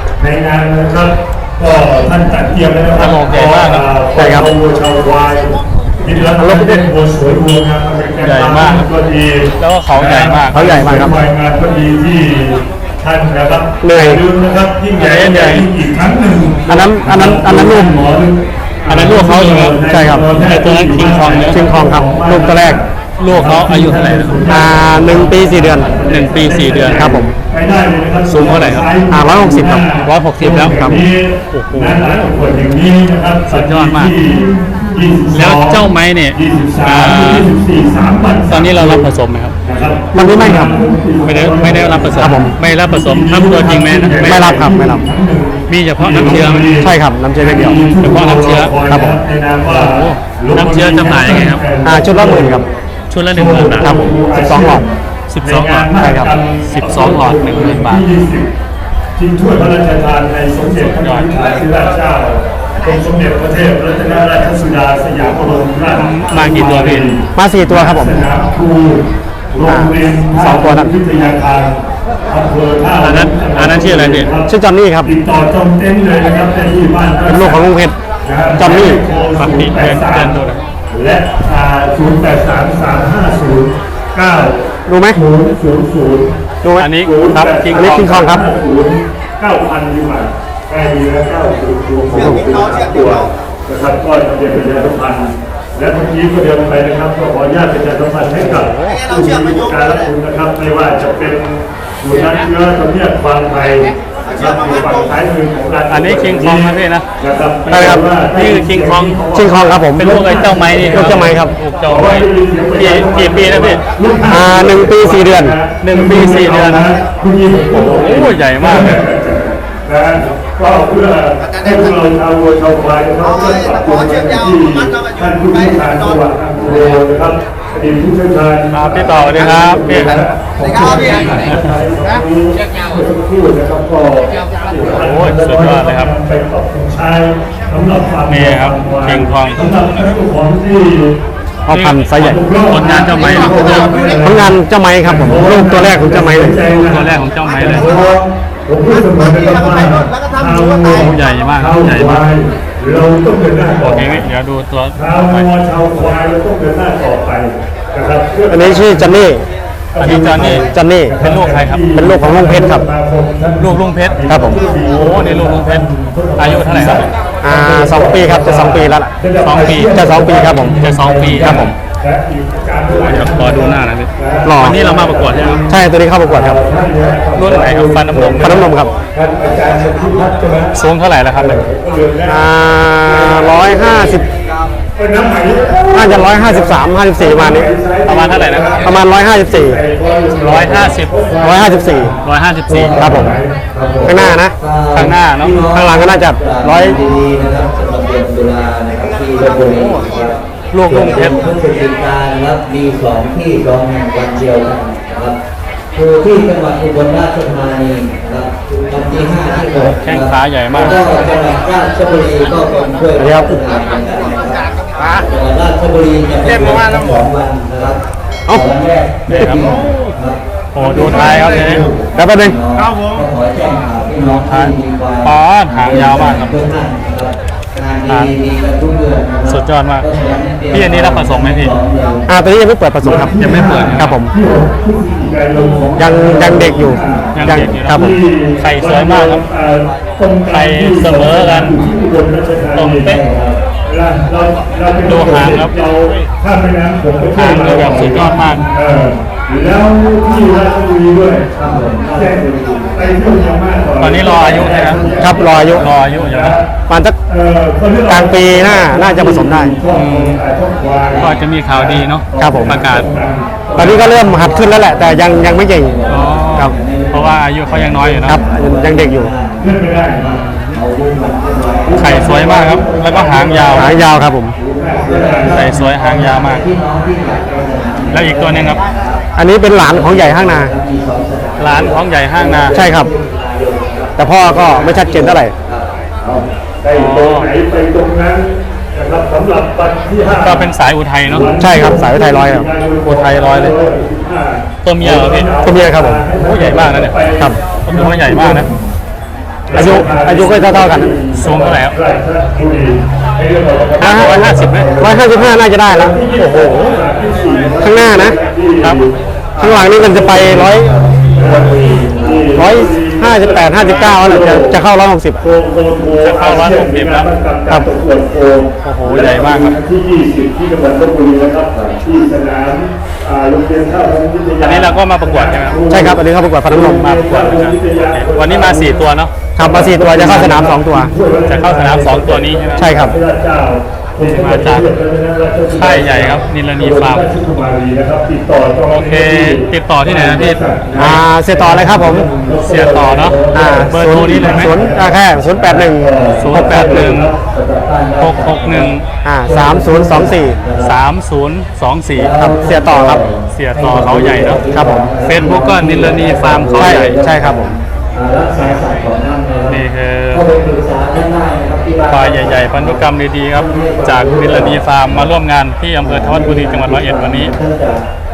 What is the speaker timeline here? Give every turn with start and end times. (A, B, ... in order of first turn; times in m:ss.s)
0:00.2-0:39.1 A
0:02.9-0:03.9 B
0:04.2-0:04.5 C
0:06.4-0:06.9 C
0:08.2-0:08.9 B
0:09.6-0:10.8 B
0:10.5-0:11.2 C
0:13.8-0:14.2 C
0:15.0-0:15.7 B
0:16.7-0:18.0 C
0:18.9-0:19.8 B
0:19.8-0:20.3 C
0:20.3-0:21.6 B
0:21.5-0:22.8 C
0:23.2-0:24.4 B
0:24.5-0:25.9 C
0:26.1-0:27.1 B
0:26.9-0:27.3 C
0:28.2-0:28.9 B
0:29.1-0:29.9 C
0:30.0-0:30.8 B
0:30.5-0:31.0 C
0:31.5-0:32.5 B
0:33.5-0:34.2 B
0:35.3-0:37.5 B
0:38.5-0:39.6 B
0:39.6-0:52.6 A
0:40.1-0:40.8 C
0:41.2-0:44.5 B
0:42.1-0:42.5 C
0:44.2-0:45.0 C
0:45.7-0:46.7 B
0:46.8-0:47.8 C
0:47.7-0:48.8 B
0:48.8-0:49.2 C
0:49.6-0:51.6 B
0:51.8-0:52.6 C
0:53.1-0:54.1 B
0:53.3-0:54.9 A
0:53.8-0:54.8 C
0:55.3-0:55.9 B
0:55.4-0:58.5 A
0:56.0-0:56.4 C
0:56.6-0:58.0 B
0:59.2-1:14.5 A
1:00.6-1:01.4 B
1:05.9-1:07.1 B
1:07.3-1:08.2 C
1:09.6-1:10.9 C
1:13.0-1:14.3 B
1:14.5-1:15.1 C
1:15.0-1:17.7 A
1:17.3-1:18.0 C
1:18.2-1:20.4 A
1:18.6-1:19.0 C
1:19.4-1:20.6 B
1:20.9-1:26.3 A
1:24.9-1:25.2 C
1:26.6-1:26.9 C
1:26.8-1:28.2 B
1:27.0-1:51.3 A
1:27.7-1:28.4 C
1:32.1-1:32.5 C
1:38.5-1:39.0 B
1:45.9-1:47.0 B
1:47.7-1:48.1 C
1:48.3-1:49.2 B
1:49.3-1:50.1 C
1:49.7-1:53.8 B
1:50.8-1:51.5 C
1:51.8-2:21.2 A
1:54.2-1:55.6 C
1:55.8-1:56.9 B
1:57.7-1:59.0 B
2:08.7-2:10.2 B
2:11.4-2:11.7 B
2:14.9-2:16.1 B
2:18.3-2:19.7 B
2:21.7-2:22.4 C
2:21.7-2:22.2 B
2:22.2-2:34.3 A
2:22.7-2:24.0 B
2:24.2-2:26.5 C
2:26.5-2:28.0 B
2:30.8-2:32.2 B
2:33.8-2:35.5 B
2:34.9-2:39.3 A
2:38.5-2:39.4 C
2:39.9-3:00.8 A
2:40.0-2:40.7 B
2:40.0-2:41.1 C
2:41.2-2:41.9 B
2:41.9-2:42.8 C
2:43.6-2:45.8 B
2:44.3-2:44.6 C
2:46.4-2:47.1 B
2:47.4-2:49.1 C
2:49.4-2:50.0 B
2:49.7-2:50.8 C
2:50.7-2:51.7 B
2:51.4-2:51.7 C
2:52.9-2:55.6 B
2:54.4-2:54.8 C
2:55.7-2:56.6 C
2:57.3-2:58.7 B
2:58.4-2:58.9 C
3:00.7-3:01.6 B
3:01.3-3:02.5 A
3:02.2-3:04.2 C
3:03.0-3:04.2 A
3:05.0-3:12.1 A
3:05.9-3:07.7 C
3:08.0-3:08.9 B
3:08.8-3:09.8 C
3:10.4-3:11.1 B
3:11.4-3:12.1 C
3:12.0-3:25.4 D
3:12.2-3:13.0 B
3:12.7-3:13.6 A
3:13.0-3:13.3 C
3:14.0-3:14.5 C
3:14.9-3:15.6 B
3:15.7-3:17.0 C
3:19.4-3:21.4 B
3:25.9-3:52.3 D
3:29.8-3:31.4 B
3:33.2-3:33.6 C
3:39.3-3:39.8 B
3:40.7-3:41.8 B
3:40.8-3:41.7 A
3:42.1-3:42.6 C
3:42.8-3:43.1 B
3:44.1-3:46.7 B
3:48.1-3:48.3 B
3:49.4-3:50.1 B
3:50.7-3:51.8 B
3:52.3-3:53.4 C
3:53.0-4:03.2 A
3:53.4-3:54.2 B
3:54.0-3:54.3 C
3:55.5-3:56.0 B
3:56.0-3:58.2 C
3:56.9-3:57.6 D
3:57.3-3:59.4 B
4:00.5-4:01.8 B
4:02.7-4:03.2 B
4:03.0-4:03.6 D
4:03.8-4:11.6 A
4:05.0-4:05.7 B
4:07.4-4:08.6 B
4:11.6-4:13.1 D
4:12.1-4:16.7 A
4:14.0-4:15.0 B
4:15.2-4:15.9 C
4:15.7-4:16.6 B
4:16.9-4:17.2 C
4:17.3-4:24.4 A
4:18.1-4:19.7 C
4:19.9-4:20.4 B
4:21.1-4:21.4 D
4:21.2-4:23.1 B
4:22.4-4:22.8 C
4:23.7-4:26.7 C
4:23.8-4:24.2 B
4:23.8-4:34.1 D
4:26.0-4:28.4 B
4:28.2-4:29.3 C
4:29.6-4:30.3 A
4:30.3-4:30.8 B
4:31.8-4:34.0 A
4:32.0-4:33.9 B
4:33.7-4:34.5 C
4:34.5-4:35.8 A
4:35.0-4:45.9 D
4:35.4-4:36.7 B
4:38.1-4:38.8 B
4:39.4-4:40.7 C
4:41.6-4:42.8 B
4:42.7-4:43.1 C
4:44.2-4:45.5 C
4:46.2-4:50.7 A
4:46.9-4:47.5 B
4:50.4-4:51.5 B
4:51.3-4:58.7 A
4:51.5-4:52.7 C
4:53.0-4:53.8 B
4:54.8-4:55.5 B
4:55.6-4:56.2 C
4:56.3-4:57.2 B
4:57.8-4:58.7 B
4:59.7-5:14.8 A
4:59.7-5:01.1 C
5:01.3-5:02.0 B
5:04.0-5:04.9 B
5:04.0-5:07.0 C
5:07.8-5:08.4 C
5:09.6-5:11.0 C
5:10.8-5:12.5 D
5:12.5-5:15.4 C
5:15.4-5:29.0 A
5:16.2-5:17.3 B
5:18.8-5:19.8 B
5:24.6-5:25.8 B
5:25.9-5:27.0 C
5:26.8-5:29.4 B
5:29.6-5:31.1 C
5:29.6-5:45.1 A
5:31.5-5:33.1 B
5:32.8-5:33.2 C
5:34.2-5:34.9 B
5:35.7-5:37.3 B
5:38.9-5:40.7 B
5:41.0-5:42.3 C
5:42.4-5:44.8 B
5:43.5-5:46.9 C
5:44.4-5:51.0 D
5:46.1-5:47.4 A
5:46.4-5:47.3 B
5:48.2-5:49.0 B
5:49.2-5:50.6 C
5:50.7-5:52.3 B
5:52.1-6:05.3 D
5:52.4-5:53.2 C
5:53.5-5:54.7 B
5:54.7-5:55.1 C
5:55.2-5:57.2 B
5:56.7-5:57.8 C
5:58.6-5:58.8 B
5:59.7-6:00.4 B
6:02.1-6:07.5 B
6:06.0-6:08.0 D